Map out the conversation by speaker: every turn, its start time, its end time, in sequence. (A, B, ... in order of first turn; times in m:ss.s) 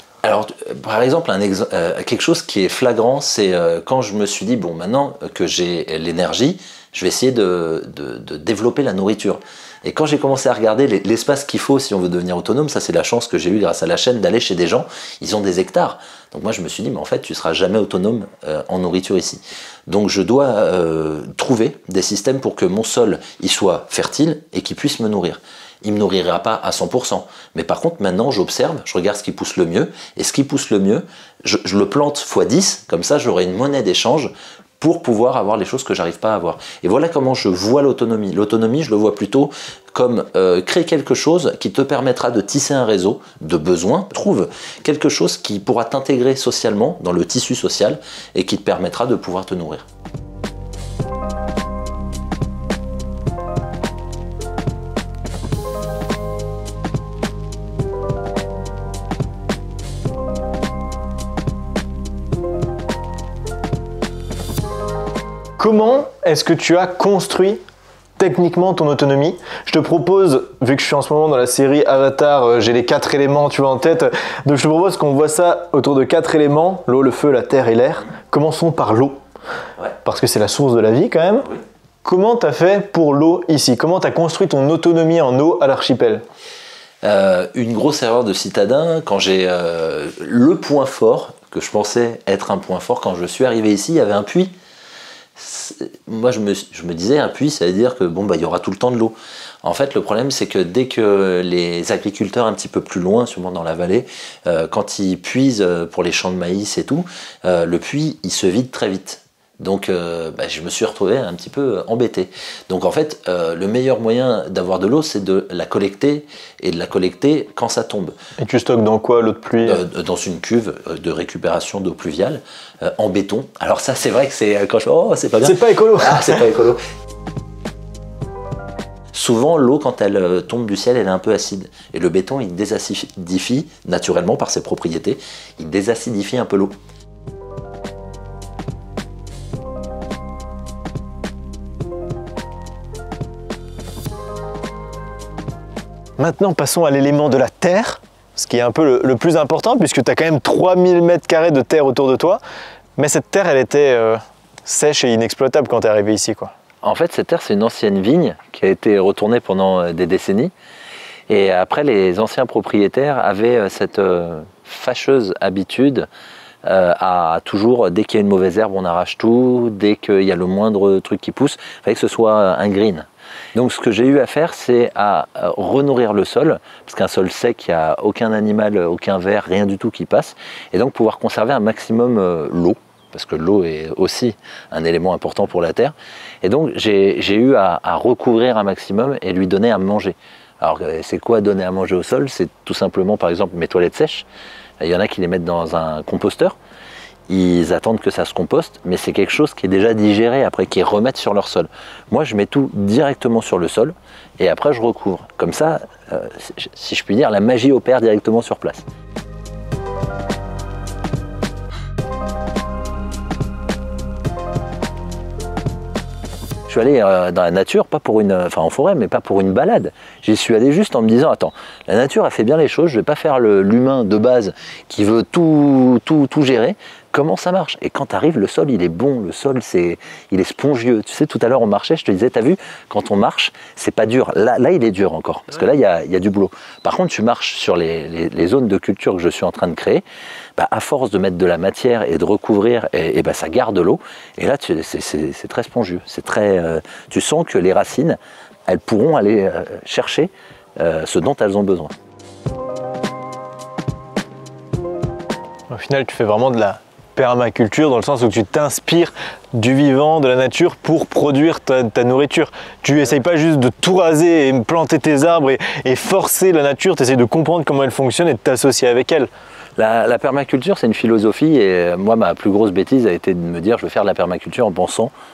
0:00.2-0:49.9 A
1:05.6-1:07.6 B
1:08.2-1:19.2 B
1:20.0-1:21.5 B
1:22.0-1:26.2 B
1:27.0-1:34.5 A
1:35.4-1:58.2 A
1:58.4-1:59.8 B
1:59.6-2:06.8 A
2:05.4-2:06.5 B
2:09.1-2:16.8 A
2:26.2-2:32.4 B
2:33.0-2:36.5 B
2:36.8-2:40.5 A
2:41.3-2:46.1 A
2:46.6-3:14.3 A
3:14.8-3:16.6 A
3:17.3-3:28.8 A
3:36.7-4:00.0 A
4:00.6-4:11.9 A
4:15.7-4:29.3 B
4:29.8-4:35.1 A